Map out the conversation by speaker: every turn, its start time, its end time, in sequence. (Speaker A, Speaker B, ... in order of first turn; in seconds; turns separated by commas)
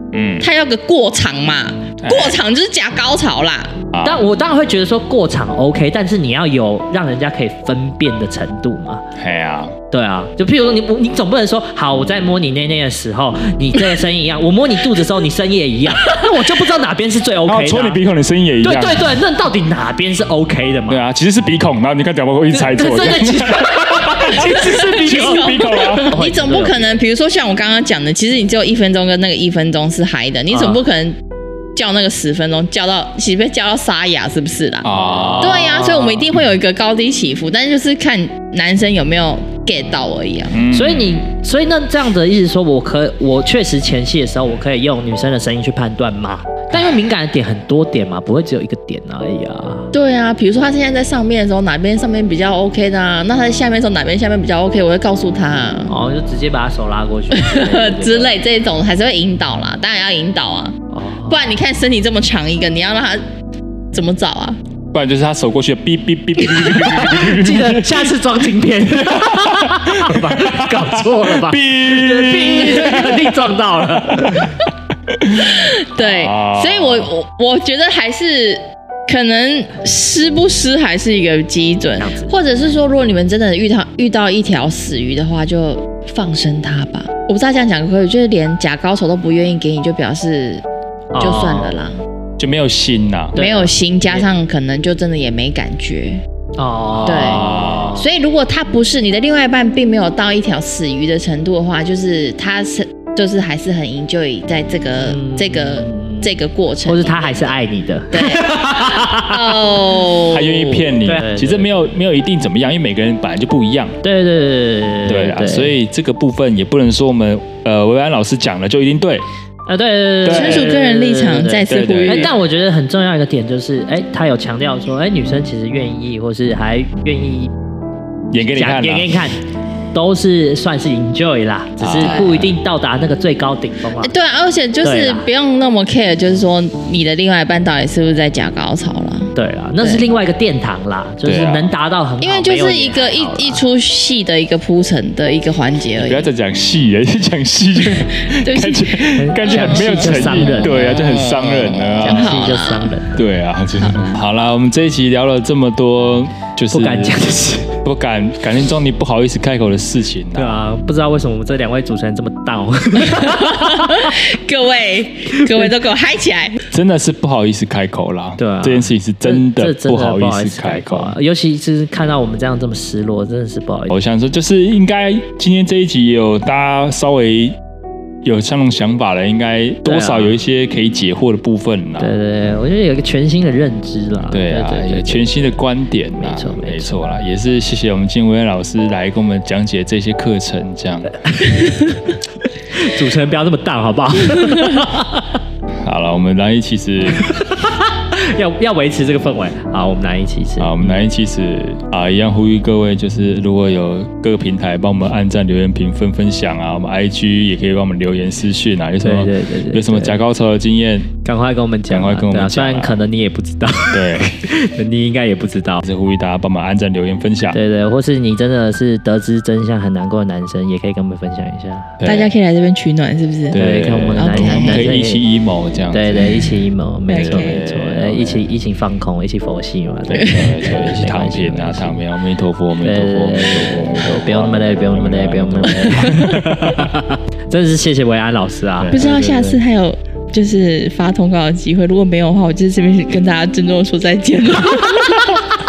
Speaker A: 0.1-0.5, Speaker B: 0.4-3.9, Speaker A: 2.0-2.4, Speaker A: 3.9-4.2, Speaker C: 4.0-9.0, Speaker A: 9.2-9.8, Speaker C: 9.9-18.0, Speaker A: 17.4-19.1, Speaker C: 18.6-21.0, Speaker A: 20.9-26.1, Speaker C: 22.5-27.0, Speaker B: 24.4-31.2, Speaker C: 30.5-30.8, Speaker B: 31.8-40.6, Speaker A: 34.8-35.6, Speaker C: 35.1-36.4, Speaker A: 40.5-41.2, Speaker C: 40.7-49.9, Speaker B: 49.9-55.9, Speaker C: 55.9-58.3, Speaker B: 57.3-63.2, Speaker C: 60.9-61.5, Speaker B: 63.9-64.6, Speaker A: 64.9-68.1, Speaker C: 67.1-74.7, Speaker A: 69.1-73.4, Speaker A: 74.1-74.5, Speaker A: 75.2-77.1, Speaker B: 75.4-90.6, Speaker C: 82.0-82.3, Speaker C: 91.1-91.8, Speaker B: 91.2-92.0, Speaker A: 92.4-93.3, Speaker C: 93.3-94.2, Speaker B: 93.4-96.2, Speaker C: 96.6-98.1, Speaker A: 97.0-98.0, Speaker B: 97.0-107.6, Speaker C: 105.0-106.3, Speaker C: 106.9-109.5, Speaker B: 108.1-110.8, Speaker A: 110.3-114.0, Speaker C: 111.0-111.9, Speaker C: 114.0-115.7, Speaker A: 115.1-119.2, Speaker C: 119.7-127.5, Speaker A: 120.2-120.7, Speaker B: 120.2-122.4, Speaker A: 121.7-122.3, Speaker A: 128.3-129.1, Speaker C: 128.4-129.4, Speaker C: 129.9-134.1, Speaker A: 131.8-132.5, Speaker B: 132.0-132.4, Speaker B: 134.0-140.0, Speaker C: 134.8-135.2, Speaker C: 139.3-143.6, Speaker A: 141.2-141.7, Speaker B: 142.2-146.3, Speaker A: 146.0-152.4, Speaker B: 148.3-153.0, Speaker C: 149.2-151.0, Speaker C: 152.0-153.2, Speaker A: 153.2-157.2, Speaker B: 153.8-154.2, Speaker C: 156.7-157.8, Speaker A: 157.8-160.6, Speaker C: 160.4-164.1, Speaker B: 163.2-166.6, Speaker A: 166.7-171.2, Speaker C: 168.4-174.0, Speaker A: 173.9-177.6, Speaker A: 178.2-182.1, Speaker C: 179.9-180.3, Speaker C: 182.0-185.6, Speaker A: 184.3-191.2, Speaker C: 186.2-187.2, Speaker C: 191.2-192.0, Speaker C: 192.7-195.3, Speaker A: 195.8-197.3, Speaker C: 197.2-201.0, Speaker A: 200.6-211.1, Speaker C: 209.0-210.2, Speaker C: 211.2-215.9, Speaker A: 211.9-213.0, Speaker A: 213.9-214.4, Speaker A: 215.8-217.6, Speaker C: 217.5-222.0, Speaker A: 222.0-222.3, Speaker B: 222.0-223.6, Speaker A: 223.5-226.3, Speaker C: 223.6-225.2, Speaker B: 224.2-224.9, Speaker C: 225.9-232.0, Speaker B: 227.1-227.6, Speaker A: 227.1-228.5, Speaker A: 230.1-236.9, Speaker C: 232.8-239.6, Speaker A: 238.8-239.1, Speaker B: 238.9-245.5